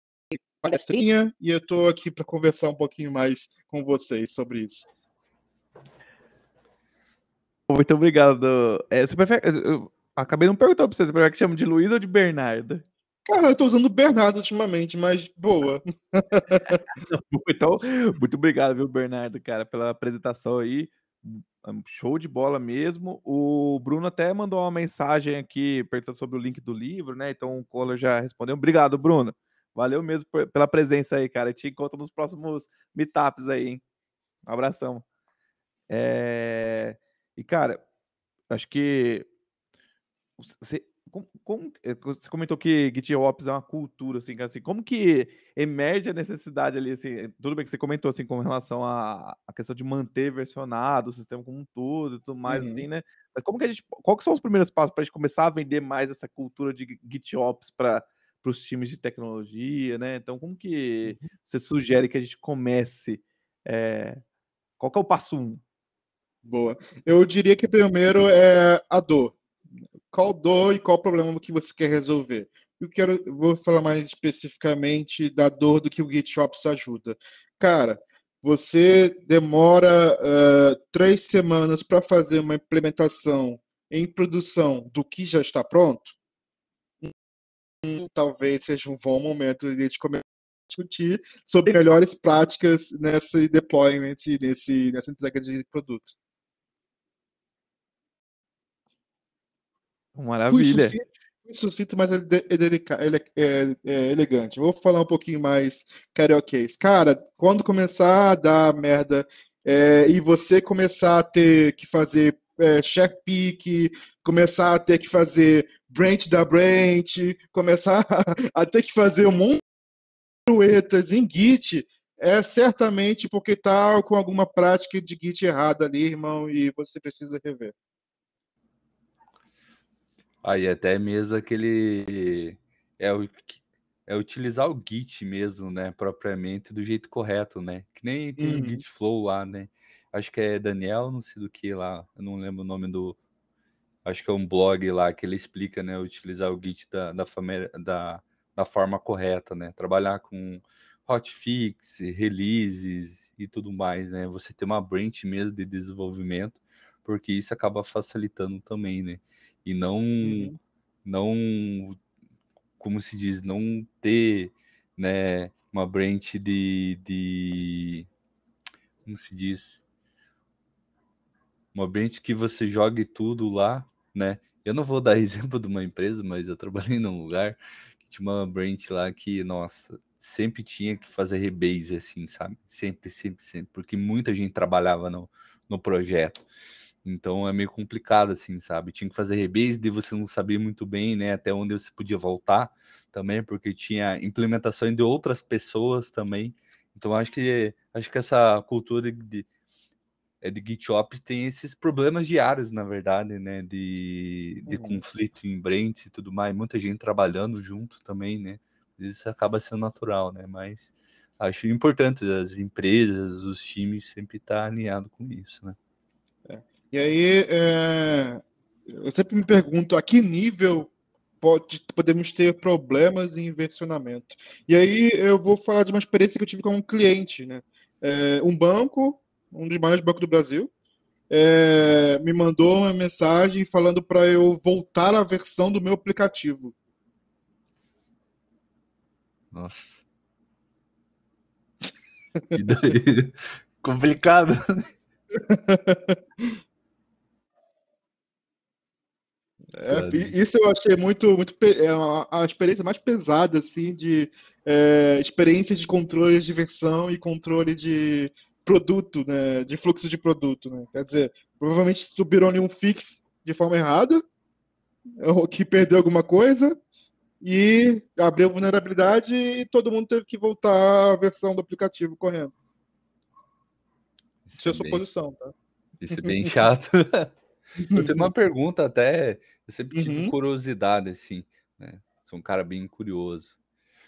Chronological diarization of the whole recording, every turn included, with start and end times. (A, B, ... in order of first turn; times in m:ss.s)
0:00.6-0:04.8 A
0:07.7-0:12.8 B
0:13.3-0:16.8 A
0:16.7-0:33.8 B
0:34.5-0:35.0 B
0:35.9-0:37.8 B
0:38.5-0:39.3 B
0:40.4-1:04.2 B
0:52.5-0:52.9 A
1:04.8-1:05.6 B
1:06.4-1:09.4 A
1:10.1-1:26.1 A
1:27.8-1:36.2 A
1:40.2-1:41.0 B
1:40.5-1:59.6 A
2:00.5-2:07.7 A
2:10.4-2:23.2 C
2:18.4-2:18.8 A
2:24.0-2:40.5 C
2:40.2-2:40.6 A
2:41.0-2:42.0 C
2:42.8-2:48.1 C
2:49.0-2:49.8 C
2:51.7-3:06.5 C
3:07.0-3:19.5 C
3:20.4-3:35.8 C
3:24.7-3:25.0 A
3:36.5-3:38.4 A
3:39.0-3:40.9 A
3:41.4-3:50.7 A
3:51.3-3:56.7 A
3:59.5-4:00.0 C
4:02.5-4:04.9 C
4:05.4-4:06.2 A
4:09.8-4:24.2 A
4:09.9-4:10.4 C
4:25.2-4:26.8 A
4:27.4-4:32.5 A
4:34.5-4:35.0 C
4:34.6-4:35.5 A
4:36.0-4:37.3 C
4:36.1-4:36.6 A
4:37.8-4:38.3 A
4:37.9-4:43.6 C
4:39.9-4:40.3 A